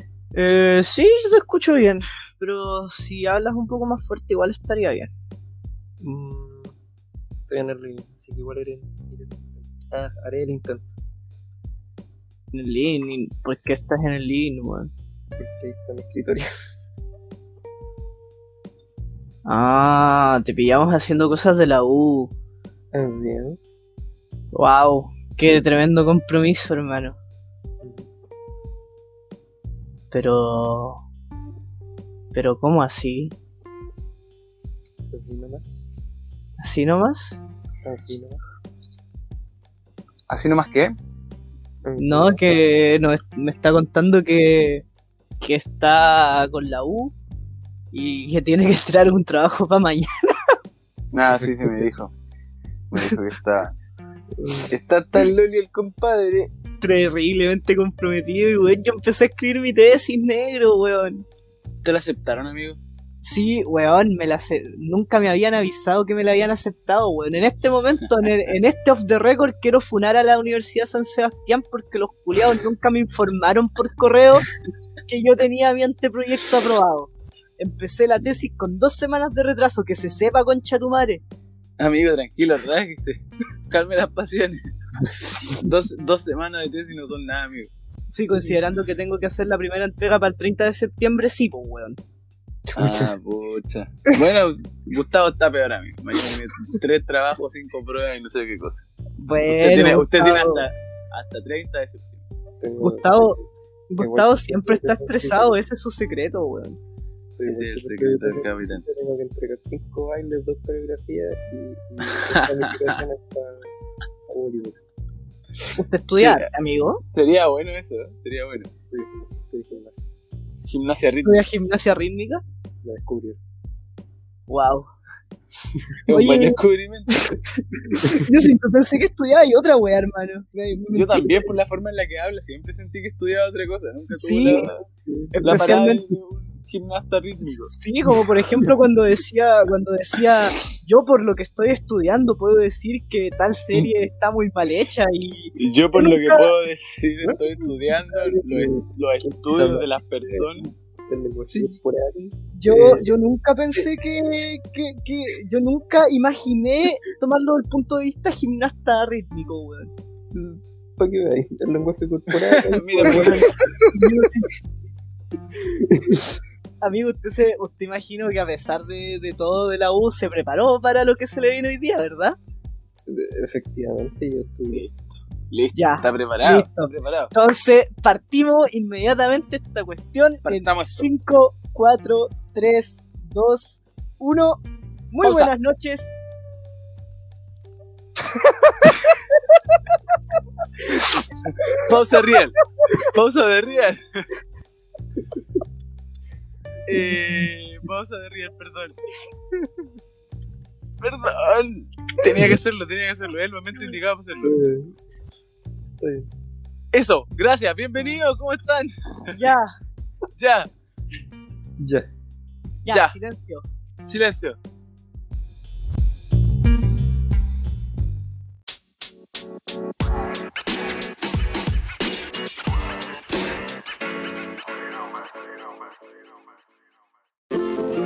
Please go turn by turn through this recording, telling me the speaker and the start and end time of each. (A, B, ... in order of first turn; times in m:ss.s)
0:00.3-0:05.1 A
0:06.0-0:06.7 B
0:07.5-0:10.9 B
0:12.5-0:14.9 A
0:15.4-0:16.5 B
0:19.4-0:22.3 A
0:22.9-0:23.8 B
0:24.5-0:27.2 A
0:27.8-0:28.1 B
0:30.1-0:31.0 A
0:32.3-0:33.3 A
0:35.1-0:35.9 B
0:36.6-0:37.4 A
0:37.8-0:38.4 B
0:40.3-0:40.9 C
0:41.8-0:42.6 B
0:42.0-0:44.8 A
0:45.4-0:47.1 A
0:47.9-0:50.3 A
0:51.1-0:52.1 C
0:51.3-0:51.9 B
0:52.9-0:53.7 C
0:54.4-0:54.7 B
0:54.7-0:56.5 C
0:56.8-1:01.2 A
1:01.8-1:02.8 C
1:03.2-1:14.5 A
1:15.1-1:21.2 A
1:21.8-1:24.6 C
1:25.0-1:25.6 B
1:25.5-1:27.7 C
1:28.1-1:32.0 A
1:32.7-1:38.8 C
1:32.8-1:33.1 B
1:39.2-1:40.6 A
1:39.5-1:42.2 C
1:42.6-1:43.5 B
1:42.8-1:43.4 A
1:43.9-1:46.8 A
1:44.0-1:45.6 B
1:47.4-1:53.7 B
1:47.5-1:48.8 C
1:52.1-1:53.0 C
1:54.3-1:54.8 B
1:55.8-1:57.0 A
1:56.2-1:56.5 C
1:57.1-1:58.7 C
1:58.8-2:00.0 B
2:00.7-2:01.4 C
2:01.2-2:02.4 A
2:02.8-2:03.4 B
2:04.5-2:04.9 A
2:06.0-2:07.2 C
2:06.1-2:07.3 A
2:07.8-2:11.5 A
2:10.9-2:17.7 C
2:14.1-2:14.7 A
2:15.0-2:15.6 B
2:15.4-2:16.0 A
2:17.4-2:26.5 A
2:25.6-2:30.7 C
2:27.2-2:32.2 B
2:32.5-2:39.9 A
2:40.3-2:43.6 B
2:42.3-2:43.6 C
2:43.1-2:44.5 A
2:45.6-2:46.4 B
2:46.8-2:52.4 A
2:53.0-2:54.8 B
2:55.5-2:57.3 C
2:55.7-3:06.1 A
3:00.4-3:01.1 C
3:05.2-3:05.5 C
3:08.3-3:09.8 A
3:11.6-3:11.9 A
3:11.8-3:14.0 C
3:16.8-3:19.0 C
3:16.9-3:17.5 B
3:21.0-3:24.6 C
3:24.4-3:24.9 B
3:26.0-3:26.3 B
3:26.9-3:29.4 C
3:29.3-3:29.7 A
3:30.4-3:30.7 C
3:31.8-3:32.1 B
3:32.8-3:33.6 A
3:32.9-3:33.2 C
3:34.1-3:34.6 C